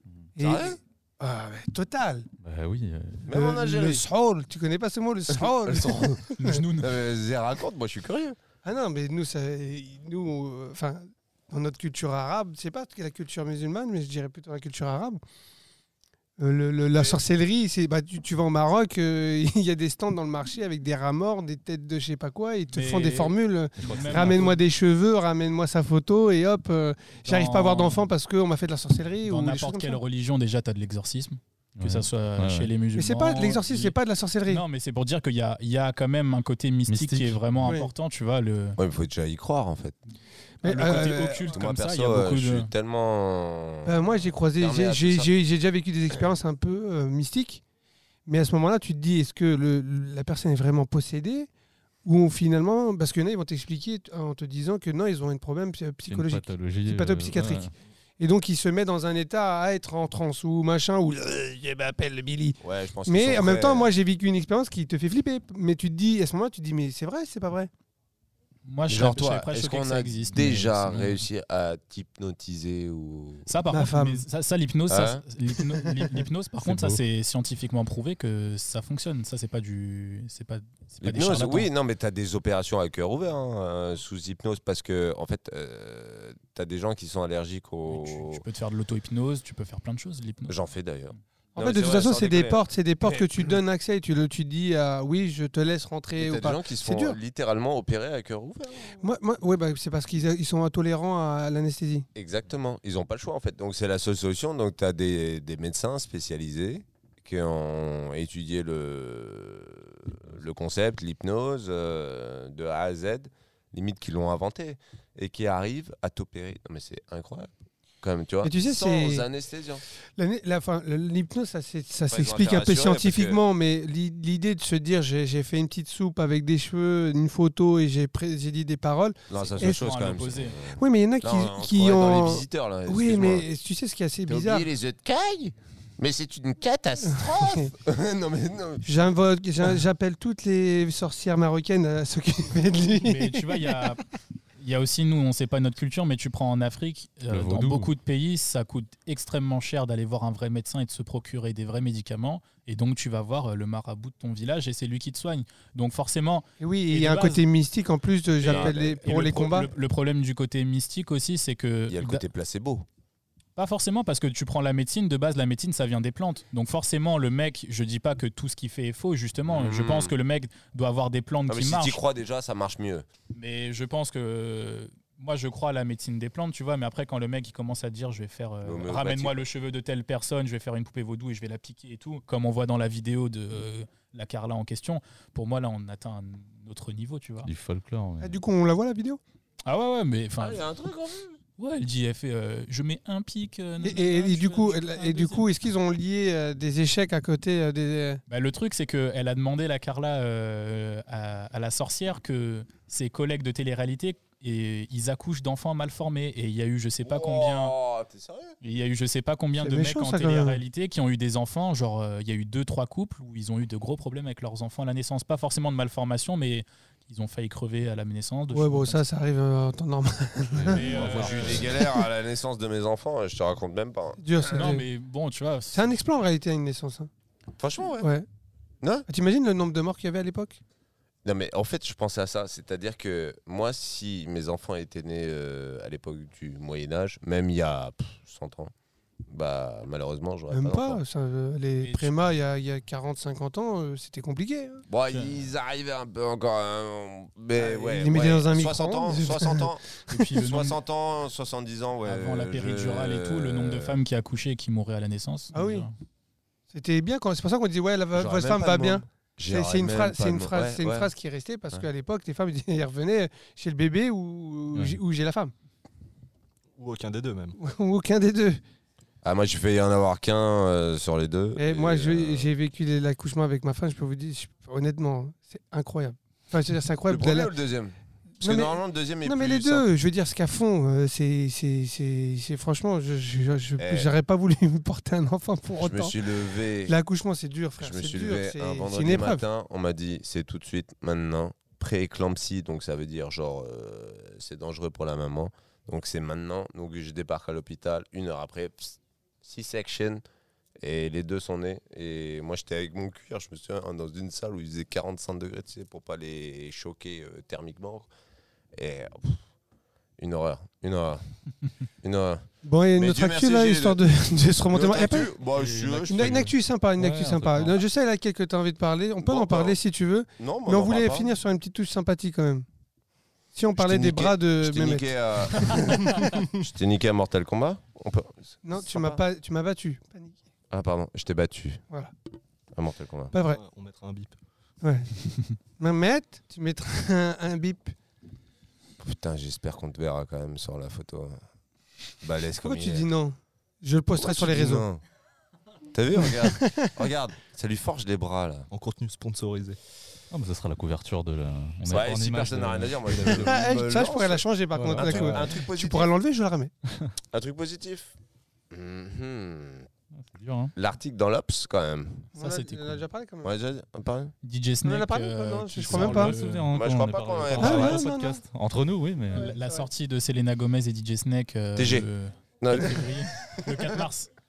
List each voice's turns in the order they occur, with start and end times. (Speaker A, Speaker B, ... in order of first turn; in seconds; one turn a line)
Speaker A: 0.4-2.3
Speaker B: 0.4-0.8
Speaker C: 2.4-3.3
Speaker B: 3.3-4.1
Speaker A: 3.3-6.6
Speaker B: 5.6-6.2
Speaker D: 6.4-7.0
Speaker B: 6.8-8.4
Speaker A: 8.6-15.2
Speaker A: 16.4-30.0
Speaker D: 22.7-24.6
Speaker C: 23.8-24.4
Speaker D: 27.3-28.1
Speaker D: 29.3-34.0
Speaker C: 31.8-32.7
Speaker A: 33.0-34.6
Speaker D: 34.5-38.8
Speaker C: 36.9-37.8
Speaker A: 37.6-37.9
Speaker B: 38.8-40.0
Speaker A: 40.6-41.6
Speaker D: 40.6-42.7
Speaker B: 41.5-44.0
Speaker A: 43.9-47.6
Speaker B: 44.6-45.3
Speaker A: 48.3-51.5
Speaker A: 52.0-67.7
Speaker C: 56.1-57.7
Speaker B: 62.6-63.9
Speaker D: 68.7-71.2
Speaker B: 68.9-73.5
Speaker D: 73.5-81.7
Speaker A: 73.7-74.2
Speaker B: 74.9-75.2
Speaker A: 75.8-76.1
Speaker C: 76.6-77.0
Speaker B: 81.0-88.4
Speaker D: 87.9-90.6
Speaker B: 90.5-93.3
Speaker A: 91.6-97.2
Speaker B: 96.2-99.0
Speaker A: 99.0-102.1
Speaker B: 102.2-117.5
Speaker B: 118.0-119.8
Speaker A: 118.4-119.3
Speaker A: 120.2-129.8
Speaker B: 122.1-123.4
Speaker B: 129.3-133.5
Speaker D: 129.6-130.6
Speaker A: 130.8-134.7
Speaker B: 134.3-138.9
Speaker A: 137.1-137.7
Speaker A: 138.8-143.5
Speaker D: 143.0-144.0
Speaker D: 144.6-157.4
Speaker C: 147.3-147.9
Speaker A: 156.6-159.7
Speaker D: 158.4-162.2
Speaker B: 158.4-159.0
Speaker B: 161.9-162.9
Speaker D: 163.6-172.0
Speaker B: 169.5-170.1
Speaker B: 171.5-173.1
Speaker D: 173.3-187.5
Speaker B: 178.6-179.4
Speaker C: 187.4-188.4
Speaker A: 188.2-189.2
Speaker D: 189.7-190.6
Speaker B: 190.4-191.4
Speaker D: 191.6-195.4
Speaker A: 193.8-198.2
Speaker D: 198.3-207.8
Speaker B: 207.0-208.6
Speaker D: 208.6-219.0
Speaker A: 209.6-210.6
Speaker A: 218.5-221.9
Speaker C: 220.5-221.7
Speaker D: 220.7-221.8
Speaker B: 221.0-224.2
Speaker A: 224.2-224.9
Speaker D: 224.5-225.9
Speaker A: 225.7-227.1
Speaker B: 227.6-228.1
Speaker A: 228.0-228.3
Speaker B: 228.8-229.1
Speaker A: 229.1-230.6
Speaker B: 231.2-238.7
Speaker B: 239.3-241.0
Speaker A: 240.5-244.8
Speaker D: 241.8-242.2
Speaker B: 244.9-254.0
Speaker D: 245.1-245.5
Speaker A: 247.6-250.2
Speaker D: 250.1-250.8
Speaker D: 252.1-255.9
Speaker A: 255.5-255.9
Speaker A: 256.7-265.5
Speaker B: 258.1-261.1
Speaker C: 264.7-265.0
Speaker E: 266.8-267.6
Speaker A: 267.6-268.6
Speaker B: 269.2-272.5
Speaker A: 271.6-277.5
Speaker B: 277.1-279.9
Speaker A: 278.4-286.2
Speaker B: 283.8-284.1
Speaker B: 285.8-287.0
Speaker A: 286.9-289.4
Speaker B: 287.8-300.2
Speaker B: 300.8-308.1
Speaker B: 308.7-309.4
Speaker B: 310.2-311.2
Speaker B: 312.0-314.0
Speaker A: 312.6-315.3
Speaker B: 314.7-316.5
Speaker C: 315.5-317.8
Speaker A: 316.1-322.7
Speaker B: 319.2-319.8
Speaker B: 320.4-321.3
Speaker A: 323.5-325.8
Speaker B: 323.8-329.2
Speaker A: 328.6-330.4
Speaker B: 330.7-331.8
Speaker B: 332.8-333.3
Speaker A: 333.3-333.6
Speaker E: 333.5-334.4
Speaker A: 334.8-335.1
Speaker A: 335.8-337.9
Speaker B: 339.0-341.4
Speaker B: 342.2-343.1
Speaker A: 342.6-344.9
Speaker B: 344.2-345.0
Speaker B: 345.9-348.7
Speaker A: 346.1-346.9
Speaker E: 348.7-349.8
Speaker C: 350.3-353.6
Speaker B: 351.9-356.1
Speaker A: 353.3-356.7
Speaker C: 354.7-355.5
Speaker B: 357.3-358.1
Speaker B: 358.7-359.9
Speaker C: 360.1-360.7
Speaker B: 360.8-362.3
Speaker A: 362.4-363.5
Speaker D: 362.4-363.0
Speaker B: 363.4-364.3
Speaker D: 364.4-366.7
Speaker A: 364.8-366.4
Speaker C: 365.9-369.5
Speaker B: 366.7-368.0
Speaker A: 367.6-368.4
Speaker D: 369.3-374.3
Speaker A: 369.3-369.9
Speaker B: 371.8-372.1
Speaker B: 372.6-373.6